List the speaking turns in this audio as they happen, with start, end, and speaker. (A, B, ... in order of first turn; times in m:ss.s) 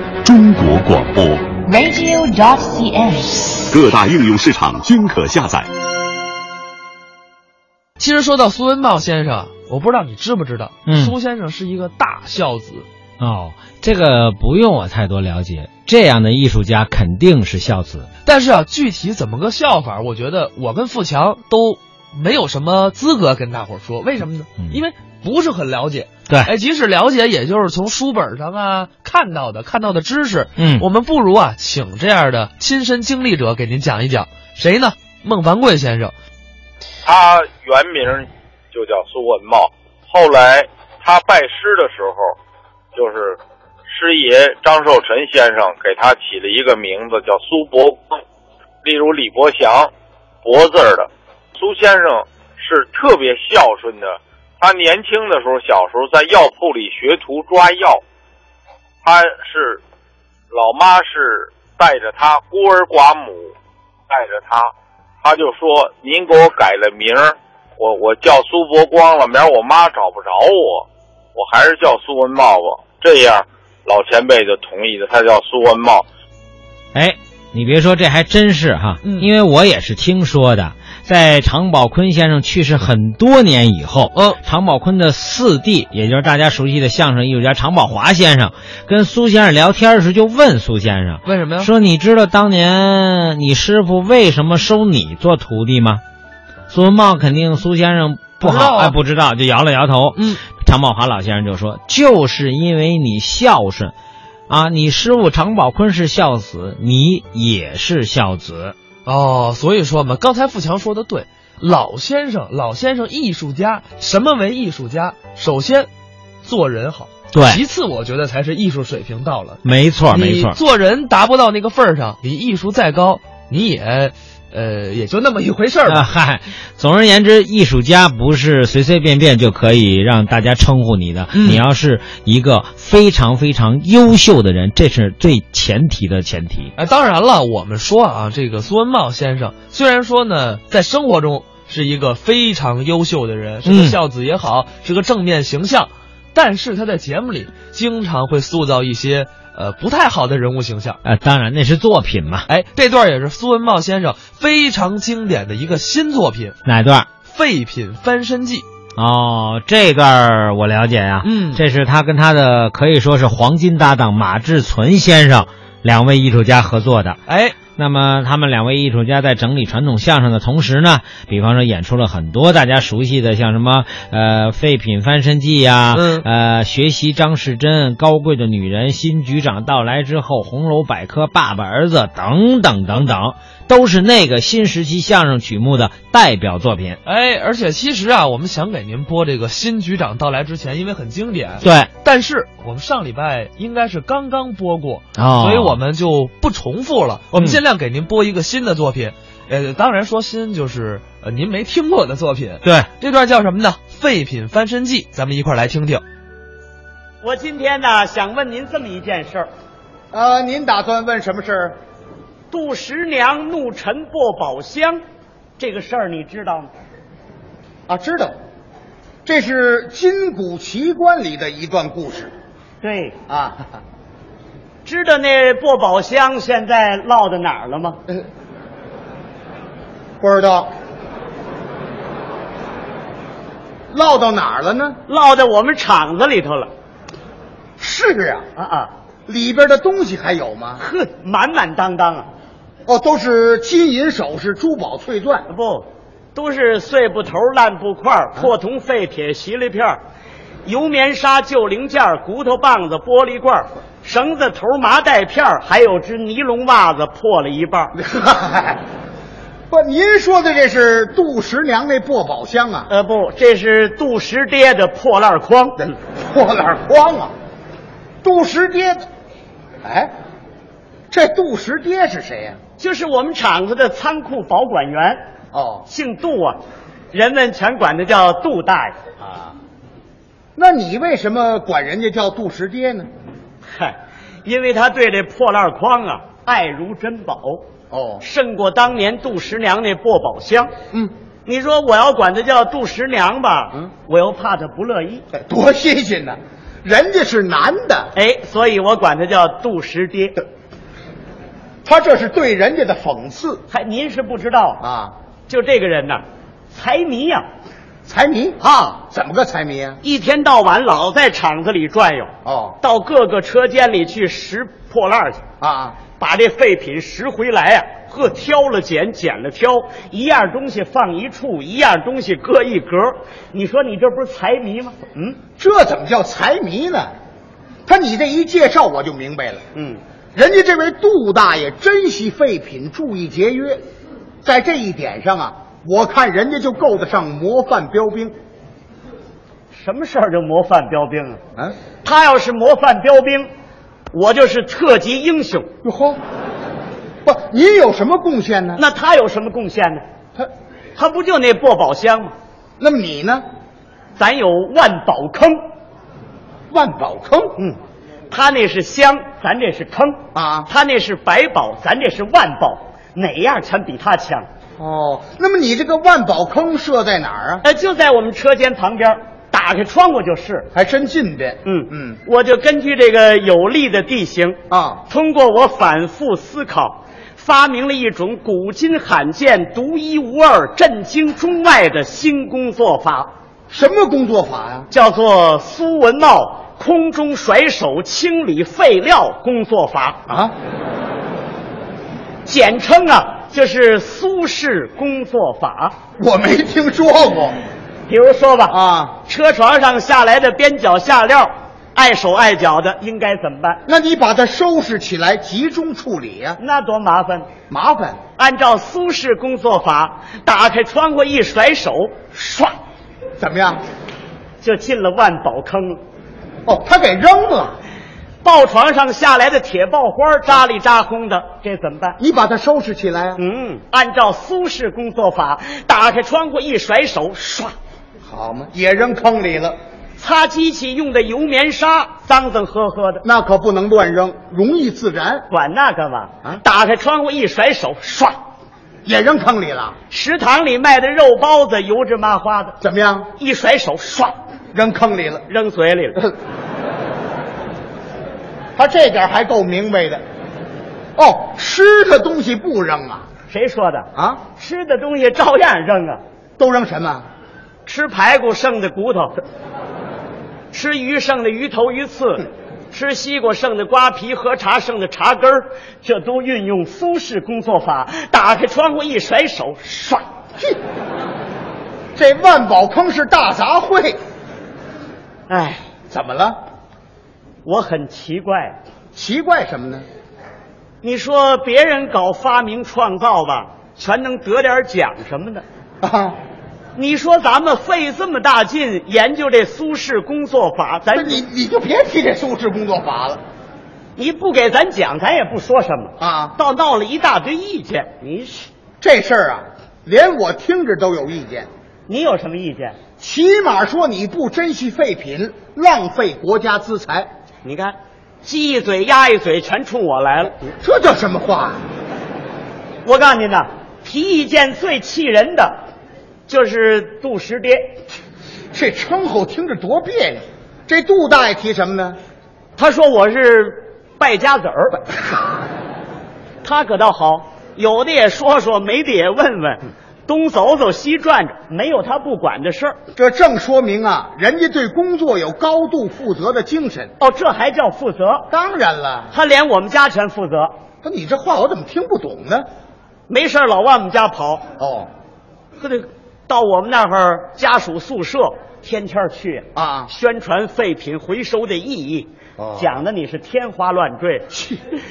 0:00.2-0:01.5 A
0:01.6-0:03.6 B
0:03.7-0:05.7 A
0:08.0-0:12.9 C
0:10.9-0:11.1 D
0:13.2-0:18.1 D
0:18.2-0:36.1 C
0:30.6-0:30.8 D
0:37.0-0:42.3 E
0:42.9-0:43.4 E
0:43.9-0:48.2 E
0:48.8-0:49.9 E
0:50.4-0:58.0 E
0:59.0-0:59.8 E
1:00.5-1:03.5 E
1:04.1-1:04.7 E
1:05.2-1:16.0 E
1:16.9-1:36.0 D
1:19.0-1:19.3 C
1:24.1-1:24.4 C
1:31.2-1:31.7 C
1:36.7-1:43.9 D
1:38.4-1:39.0 C
1:40.2-1:40.4 C
1:44.5-1:48.7 D
1:49.0-1:55.9 C
1:56.4-2:06.0 C
1:57.3-1:57.6 D
1:59.6-2:00.6 D
2:05.9-2:16.7 D
2:11.3-2:11.6 C
2:16.8-2:31.0 C
2:23.6-2:24.0 D
2:31.0-2:32.4 D
2:32.5-2:36.6 C
2:36.6-2:37.1 D
2:37.2-2:38.6 C
2:39.0-2:47.2 D
2:41.2-2:41.6 C
2:47.3-2:47.6 C
2:47.7-3:07.0 D
2:55.9-2:56.2 C
3:07.0-3:26.0 C
3:11.6-3:11.9 D
3:15.2-3:15.8 D
3:17.3-3:17.6 D
3:27.2-3:29.5 F
3:30.1-3:31.8 G
3:32.5-3:35.0 F
3:35.6-3:36.7 F
3:37.9-3:38.4 G
3:39.2-3:42.3 G
3:42.8-3:43.2 F
3:43.3-3:43.7 G
3:44.8-3:48.0 F
3:50.2-3:50.7 G
3:53.9-3:55.0 G
3:55.1-3:56.7 F
3:57.8-3:58.4 G
3:58.6-3:58.9 F
3:59.3-4:00.8 G
4:00.8-4:02.3 F
4:02.8-4:05.5 G
4:05.5-4:10.0 F
4:10.6-4:17.9 F
4:18.0-4:18.8 G
4:19.7-4:22.9 G
4:22.9-4:25.8 F
4:25.8-4:27.3 G
4:28.2-4:29.0 G
4:29.8-4:30.1 G
4:31.1-4:32.6 G
4:32.8-4:35.2 F
4:35.5-4:35.8 G
4:35.9-4:36.6 F
4:37.1-4:39.0 F
4:39.2-4:39.5 G
4:40.6-4:43.1 G
4:43.6-4:47.6 F
4:47.9-4:48.2 G
4:48.2-4:50.7 F
4:51.4-4:55.2 F
4:55.3-4:58.1 G
4:58.1-5:00.4 F
5:01.8-5:03.6 G
5:03.7-5:04.8 F
5:04.8-5:05.1 G
5:05.5-5:07.4 F
5:08.0-5:10.0 G
5:08.6-5:09.0 F
5:10.0-5:15.4 F
5:12.4-5:12.8 G
5:15.6-5:16.0 G
5:16.2-5:25.4 F
5:25.6-5:27.1 G
5:27.8-5:29.6 G
5:29.7-5:30.0 F
5:30.3-5:33.8 G
5:34.4-5:38.3 G
5:39.7-5:41.4 F
5:42.0-5:43.5 F
5:44.1-5:45.7 F
5:45.8-5:46.2 G
5:47.2-5:48.8 G
5:48.8-5:50.0 F
5:51.0-5:52.3 F
5:52.8-5:53.4 G
5:54.2-5:55.6 F
5:56.7-5:57.6 G
5:58.3-6:04.5 F
6:00.3-6:00.7 G
6:04.8-6:07.6 G
6:07.6-6:10.7 F
6:10.7-6:12.2 G
6:11.6-6:23.3 F
6:14.7-6:15.0 G
6:23.7-6:24.9 G
6:24.9-6:30.2 F
6:30.3-6:30.5 G
6:32.4-6:36.0 F
6:36.2-6:37.6 G
6:38.1-6:43.8 F
6:38.7-6:39.2 G
6:43.9-6:46.6 G
6:46.6-6:47.5 F
6:47.7-6:48.2 G
6:48.4-6:52.7 F
6:53.4-6:53.8 G
6:54.6-6:56.0 F
6:56.6-6:57.8 G
6:58.4-7:02.2 F
7:02.2-7:03.4 G
7:03.4-7:07.7 F
7:08.2-7:09.8 G
7:10.2-7:13.2 F
7:13.2-7:15.5 G
7:15.5-7:18.4 F
7:19.0-7:20.0 G
7:20.1-7:22.8 F
7:22.8-7:23.3 G
7:23.4-7:24.4 F
7:24.7-7:25.4 G
7:25.5-7:26.3 F
7:28.8-7:30.2 G
7:31.2-7:33.3 G
7:33.5-7:36.2 F
7:34.1-7:34.4 G
7:36.6-7:37.3 G
7:37.8-7:39.4 F
7:40.7-7:50.2 F
7:52.2-7:54.2 G
7:55.5-7:55.8 F
7:56.1-7:56.6 G
7:57.6-7:58.8 F
7:59.1-8:00.0 G
8:01.0-8:05.6 F
8:06.0-8:06.4 G
8:07.0-8:11.4 F
8:11.1-8:13.4 G
8:14.2-8:18.7 F
8:16.2-8:16.6 G
8:19.0-8:21.7 G
8:22.1-8:23.0 F
8:23.2-8:27.3 G
8:27.6-8:30.6 F
8:30.8-8:31.8 G
8:33.0-8:35.8 F
8:36.5-8:38.0 F
8:38.7-8:42.2 G
8:42.8-8:45.0 F
8:45.1-8:45.6 G
8:46.6-8:53.0 F
8:53.1-8:57.1 G
8:57.2-8:58.5 F
8:58.5-8:59.3 G
8:59.3-9:00.8 F
9:01.0-9:02.7 G
9:03.3-9:04.6 F
9:04.8-9:05.1 G
9:05.8-9:14.5 F
9:09.7-9:10.1 G
9:12.6-9:12.9 G
9:14.5-9:14.8 G